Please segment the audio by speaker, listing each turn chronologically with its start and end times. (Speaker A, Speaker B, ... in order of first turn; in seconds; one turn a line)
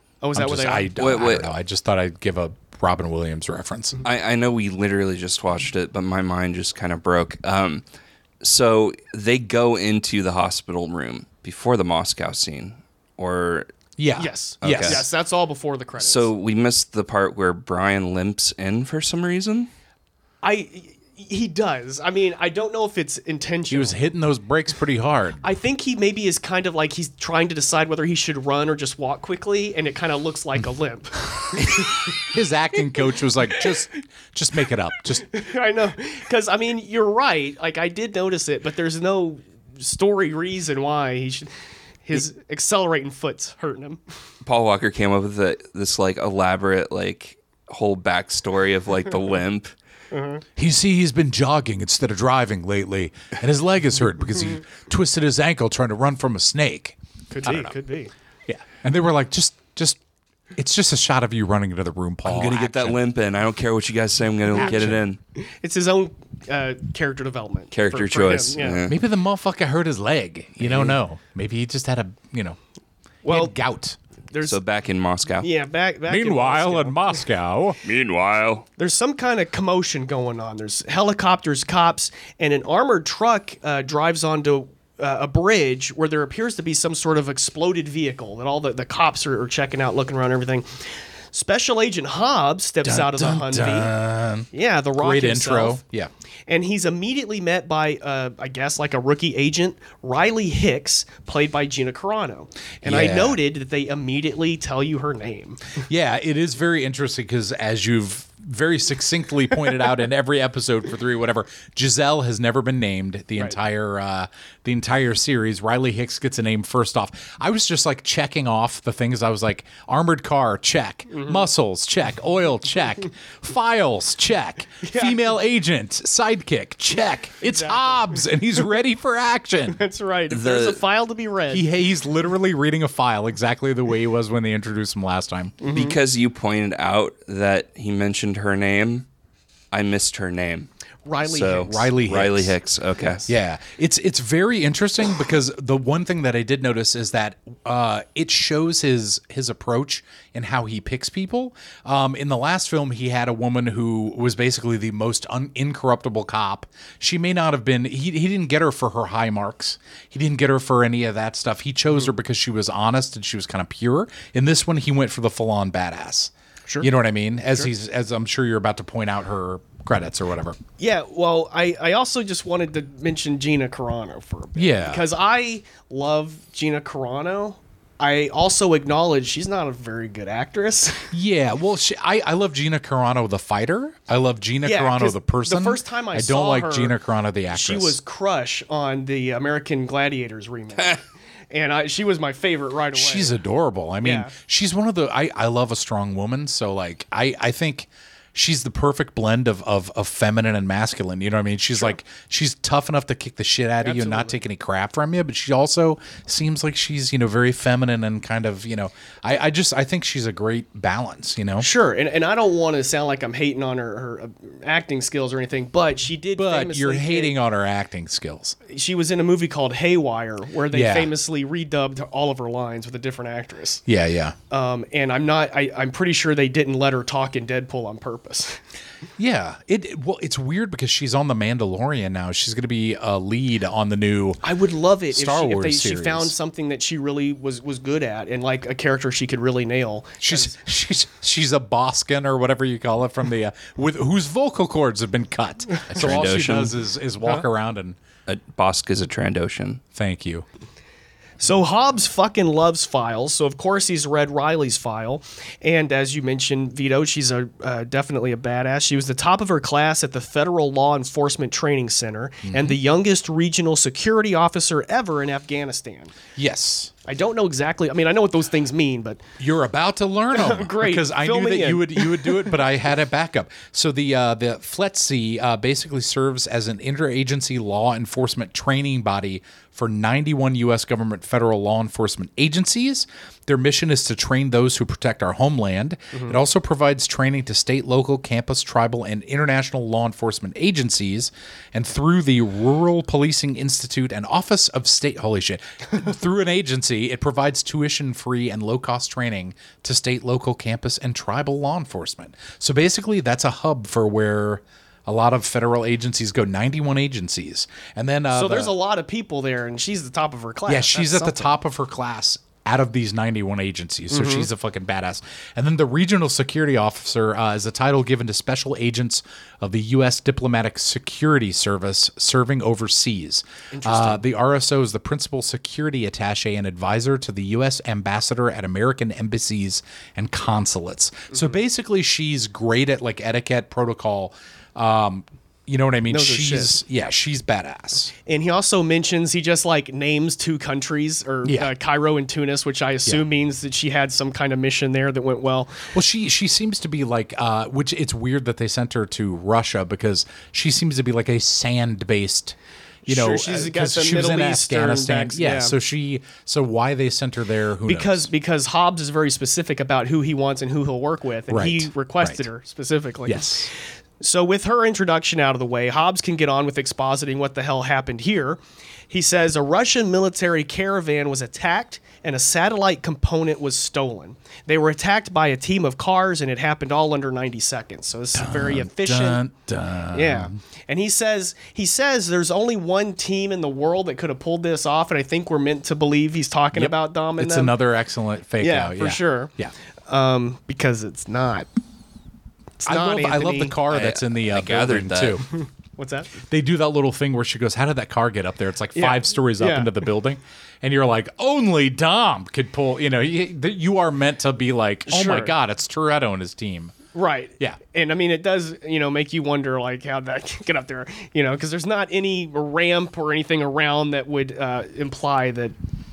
Speaker A: 0.2-1.0
Speaker B: 0.3-4.0
Speaker C: 1.0-1.5
Speaker C: 4.0-7.8
Speaker C: 8.4-13.7
Speaker B: 14.0-15.1
Speaker A: 14.2-16.3
Speaker C: 14.6-15.1
Speaker C: 16.0-19.7
Speaker A: 20.4-24.0
Speaker B: 23.7-25.4
Speaker A: 25.4-32.2
Speaker B: 31.6-35.3
Speaker A: 35.2-41.5
Speaker A: 42.0-44.0
Speaker C: 44.4-49.7
Speaker A: 50.1-50.4
Speaker B: 50.6-57.7
Speaker A: 57.3-58.1
Speaker B: 58.5-60.0
Speaker B: 60.6-63.0
Speaker C: 62.2-65.2
Speaker B: 64.6-65.0
Speaker A: 65.4-68.8
Speaker C: 67.7-69.0
Speaker B: 68.9-72.6
Speaker A: 73.2-73.5
Speaker B: 73.3-74.0
Speaker A: 74.3-74.6
Speaker C: 74.4-75.5
Speaker A: 75.4-77.2
Speaker B: 76.1-77.8
Speaker C: 77.8-78.7
Speaker A: 78.8-93.9
Speaker B: 92.8-96.1
Speaker A: 94.5-95.8
Speaker A: 96.5-105.8
Speaker B: 102.8-103.4
Speaker B: 105.8-129.8
Speaker A: 121.1-121.4
Speaker A: 124.8-125.2
Speaker A: 127.5-128.0
Speaker A: 129.7-131.7
Speaker C: 130.3-130.8
Speaker B: 131.5-135.6
Speaker A: 135.6-136.0
Speaker C: 135.7-139.1
Speaker C: 139.7-140.7
Speaker A: 141.1-141.8
Speaker C: 141.3-143.3
Speaker B: 141.6-142.5
Speaker B: 143.3-170.6
Speaker A: 170.8-181.1
Speaker B: 174.6-175.0
Speaker B: 181.1-188.0
Speaker A: 184.6-186.9
Speaker A: 187.5-193.4
Speaker B: 192.9-211.7
Speaker A: 194.0-194.3
Speaker A: 203.8-204.4
Speaker A: 211.6-217.3
Speaker B: 216.4-218.6
Speaker A: 218.7-223.8
Speaker B: 220.7-221.1
Speaker B: 223.9-224.3
Speaker A: 224.5-228.6
Speaker B: 229.2-234.4
Speaker A: 234.4-240.6
Speaker B: 235.1-236.3
Speaker B: 240.2-248.0
Speaker C: 245.9-246.8
Speaker C: 248.3-249.8
Speaker B: 249.9-250.4
Speaker A: 251.4-266.1
Speaker B: 262.4-262.8
Speaker B: 266.4-266.9
Speaker A: 267.1-269.2
Speaker B: 269.4-308.8
Speaker A: 270.3-272.5
Speaker A: 308.3-311.6
Speaker B: 310.7-338.1
Speaker A: 314.1-314.5
Speaker A: 323.7-324.3
Speaker A: 336.1-336.8
Speaker A: 338.3-345.9
Speaker B: 341.4-341.7
Speaker B: 345.9-358.3
Speaker A: 353.1-355.8
Speaker A: 357.9-363.6
Speaker B: 361.5-362.5
Speaker B: 363.2-363.7
Speaker A: 364.2-379.4
Speaker B: 378.3-380.6
Speaker A: 380.1-387.8
Speaker B: 386.7-389.7
Speaker A: 388.6-389.5
Speaker A: 390.1-391.7
Speaker A: 392.8-393.8
Speaker B: 392.9-395.5
Speaker C: 393.9-395.4
Speaker A: 396.0-396.4
Speaker B: 396.5-407.0
Speaker A: 398.9-399.9
Speaker A: 405.1-405.5
Speaker A: 407.1-415.8